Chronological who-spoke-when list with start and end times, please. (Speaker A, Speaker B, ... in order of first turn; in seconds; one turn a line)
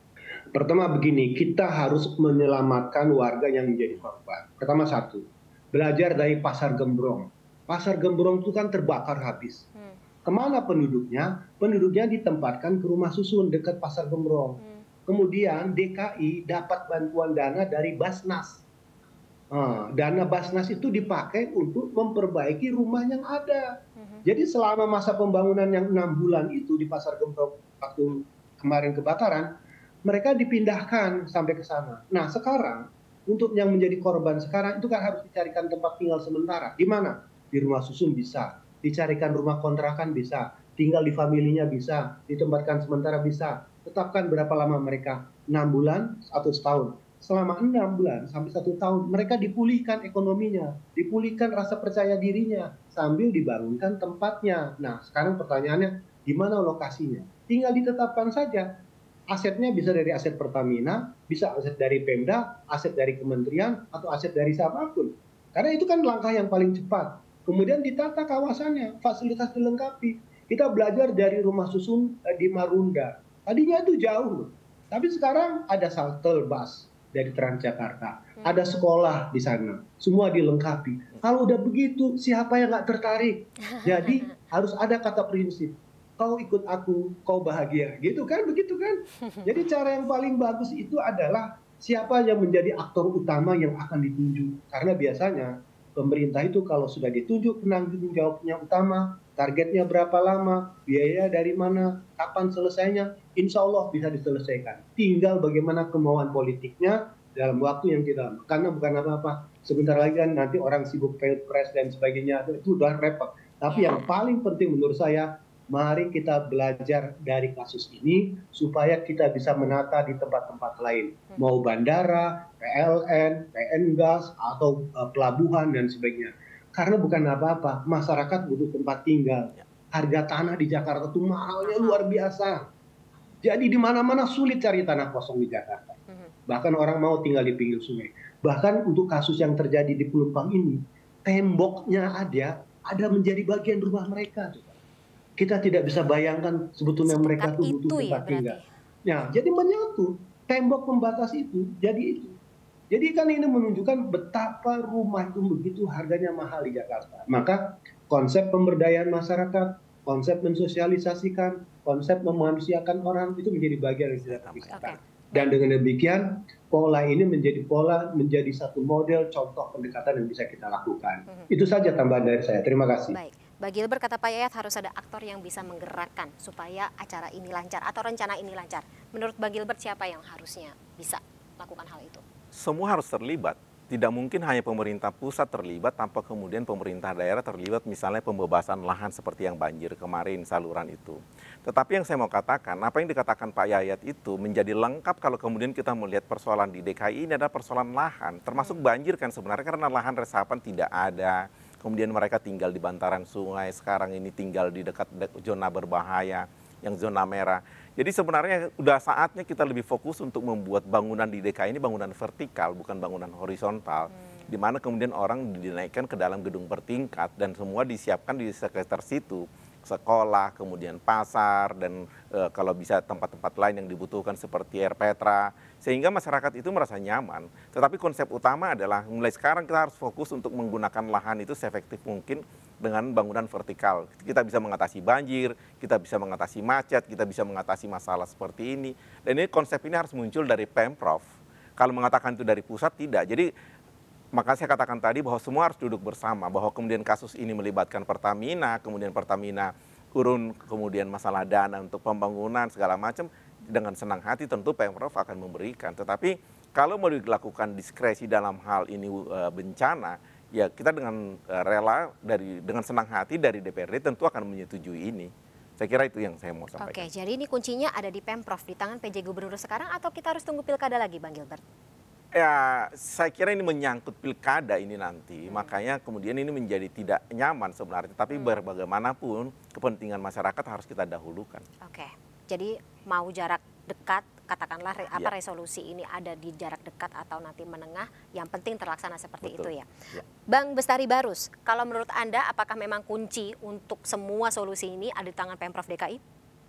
Speaker A: 0.5-9.7
Speaker A: 10.2-18.6
Speaker B: 14.6-14.8
Speaker A: 19.5-23.7
Speaker B: 24.0-24.2
Speaker A: 24.2-29.5
Speaker A: 30.1-132.7
Speaker B: 78.4-78.7
Speaker B: 83.7-84.3
Speaker B: 113.7-114.1
Speaker B: 131.6-132.1
Speaker A: 133.4-144.8
Speaker A: 145.4-152.4
Speaker B: 147.0-148.7
Speaker A: 152.9-173.2
Speaker B: 164.7-165.4
Speaker B: 173.1-182.2
Speaker C: 182.5-241.3
Speaker B: 198.5-198.8
Speaker B: 214.1-214.5
Speaker C: 241.8-243.5
Speaker C: 244.4-267.1
Speaker B: 266.8-271.6
Speaker C: 272.4-281.6
Speaker B: 275.5-275.8
Speaker B: 278.3-278.6
Speaker B: 281.8-289.9
Speaker C: 289.4-290.2
Speaker B: 290.5-296.2